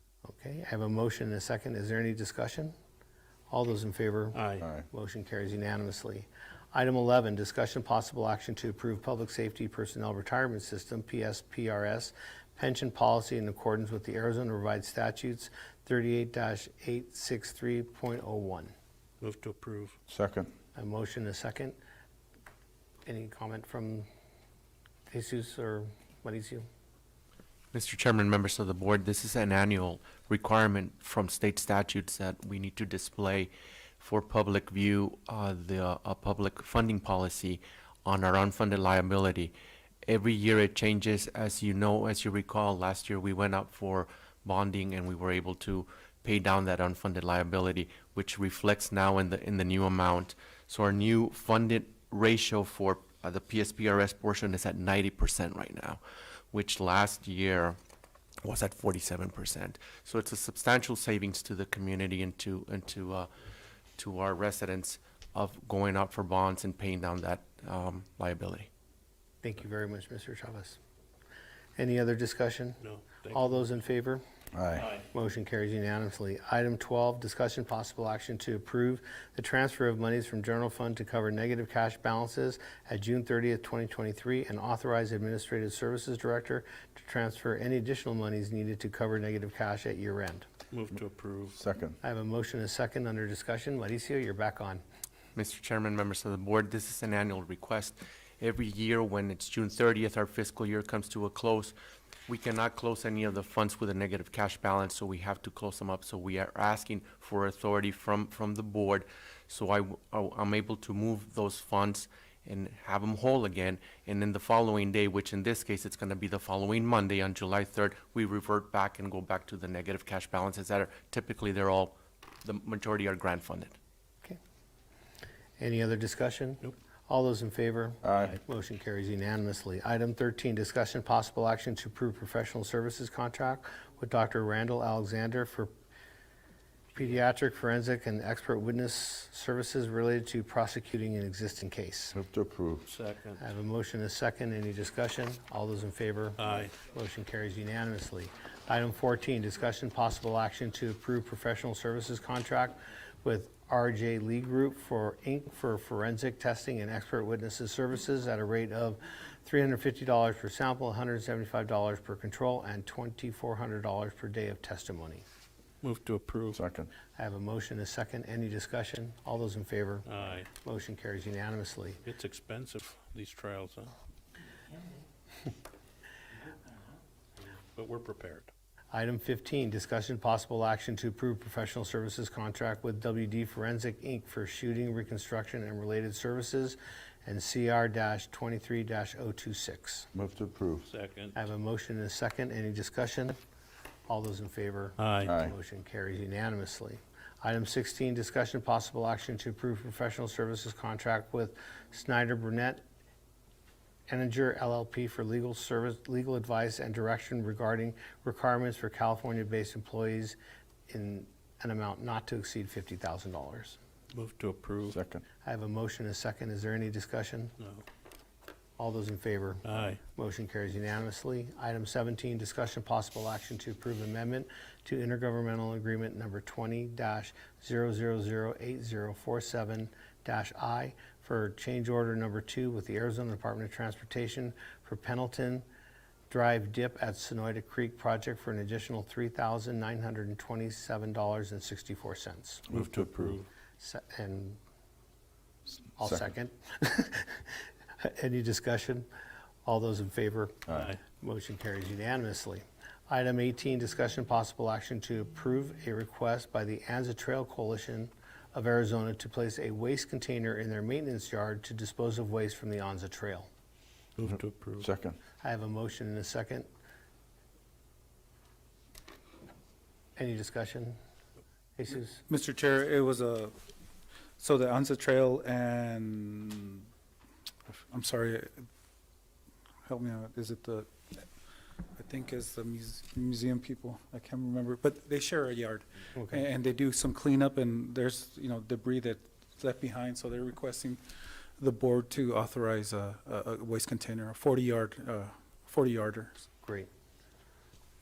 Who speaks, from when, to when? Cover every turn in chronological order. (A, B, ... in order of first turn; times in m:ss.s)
0:00.2-0:02.7 A
0:03.5-0:04.4 A
0:04.3-0:04.7 B
0:04.6-0:04.9 C
0:04.9-0:18.7 A
0:19.2-0:20.0 B
0:20.1-0:20.5 C
0:20.7-0:21.8 A
0:23.0-0:24.1 A
0:25.1-0:26.6 A
0:27.7-0:39.5 D
0:40.0-0:56.0 D
0:56.5-0:57.8 D
0:58.4-1:03.3 D
1:04.0-1:08.7 D
1:09.4-1:10.8 A
1:11.8-1:14.2 A
1:12.8-1:13.6 B
1:14.5-1:14.9 C
1:14.8-1:15.1 B
1:15.1-1:30.4 A
1:30.7-1:31.6 B
1:31.6-1:32.0 C
1:32.0-1:34.8 A
1:35.4-1:41.7 D
1:42.3-2:03.7 D
2:05.6-2:15.7 A
2:08.0-2:08.4 C
2:16.9-2:22.2 A
2:22.1-2:22.9 C
2:22.8-2:23.5 B
2:23.4-2:45.2 A
2:26.4-2:26.8 B
2:45.8-2:46.6 B
2:46.5-2:46.9 C
2:47.2-2:52.0 A
2:50.0-2:50.5 B
2:52.0-2:53.9 B
2:57.4-2:58.5 B
2:58.9-3:10.1 A
3:10.1-3:10.9 C
3:10.8-3:11.4 B
3:11.3-3:13.4 A
3:14.1-3:22.8 A
3:15.0-3:15.3 B
3:15.2-3:15.5 C
3:24.1-3:30.4 A
3:30.9-3:33.8 A
3:34.1-3:35.0 B
3:34.9-3:35.2 C
3:35.4-3:37.5 A
3:37.6-3:37.8 B
3:38.8-3:55.6 A
3:39.6-3:40.0 B
3:56.3-4:02.6 A
4:02.7-4:03.4 C
4:02.7-4:03.5 B
4:03.8-4:04.6 A
4:06.0-4:09.1 A
4:06.0-4:06.3 C
4:09.6-4:23.5 A
4:10.7-4:10.9 C
4:10.7-4:11.0 B
4:24.2-4:24.9 B
4:24.8-4:25.2 C
4:25.4-4:26.7 A
4:30.2-4:31.0 A
4:31.8-4:32.2 A
4:32.3-4:33.5 E
4:34.4-4:36.8 E
4:37.7-4:38.7 E
4:39.8-4:41.2 E
4:42.0-4:51.0 E
4:51.6-4:56.3 E
4:56.6-4:56.9 A